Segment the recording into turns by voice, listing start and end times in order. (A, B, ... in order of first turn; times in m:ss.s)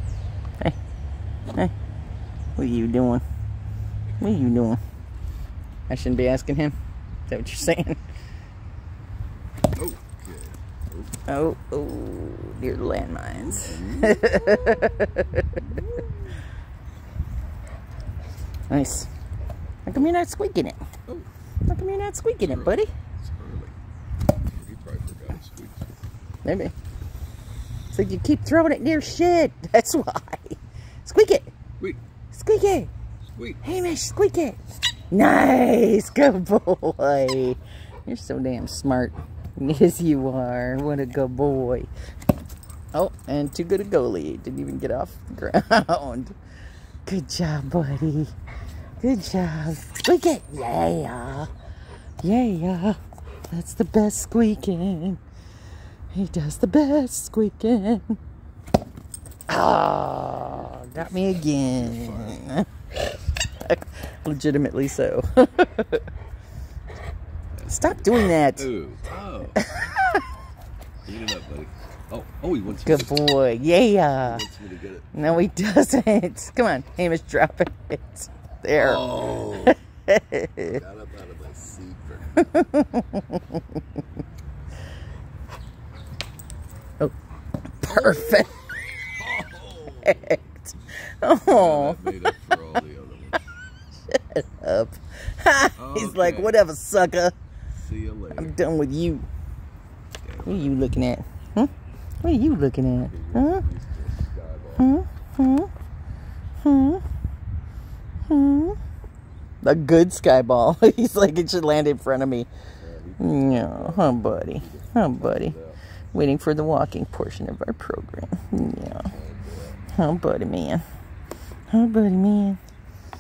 0:02.6-0:03.2 A
0:04.2-0:04.8 A
0:05.9-0:06.8 A
0:07.3-0:08.0 A
0:09.7-0:11.2 B
0:11.3-0:15.6 A
0:13.3-0:16.4 B
0:18.7-0:19.1 A
0:19.9-0:20.8 A
0:21.7-0:22.9 A
0:22.4-0:23.8 B
0:24.6-0:25.8 B
0:26.4-0:26.7 A
0:27.9-0:31.5 A
0:32.3-0:32.9 A
0:33.4-0:33.6 B
0:33.6-0:41.9 A
0:42.9-0:46.4 A
0:47.1-0:48.3 A
0:49.0-0:51.5 A
0:52.2-0:55.2 A
0:56.1-0:58.2 A
0:59.5-1:02.7 A
1:00.5-1:02.5 B
1:03.6-1:06.1 A
1:07.6-1:09.6 B
1:07.7-1:08.7 A
1:09.6-1:10.2 A
1:11.0-1:13.2 B
1:12.7-1:14.4 A
1:14.2-1:15.5 B
1:15.1-1:20.8 A
1:18.8-1:19.8 B
1:20.6-1:22.5 B
1:22.4-1:23.8 A
1:27.8-1:28.6 A
1:27.9-1:30.4 B
1:30.0-1:32.4 A
1:31.5-1:33.4 B
1:34.1-1:37.3 A
1:35.8-1:36.6 B
1:37.8-1:38.6 B
1:38.4-1:39.3 A
1:40.2-1:40.8 B
1:40.4-1:41.7 A
1:42.2-1:43.6 A
1:43.0-1:45.0 B
1:44.8-1:45.7 A
1:46.6-1:47.0 A
1:48.3-1:48.8 A
1:49.6-1:52.5 A
1:52.8-1:55.8 B
1:53.2-1:55.6 A
1:56.1-1:59.1 A
1:59.1-1:59.8 B
1:59.9-2:00.8 A
2:01.7-2:02.6 A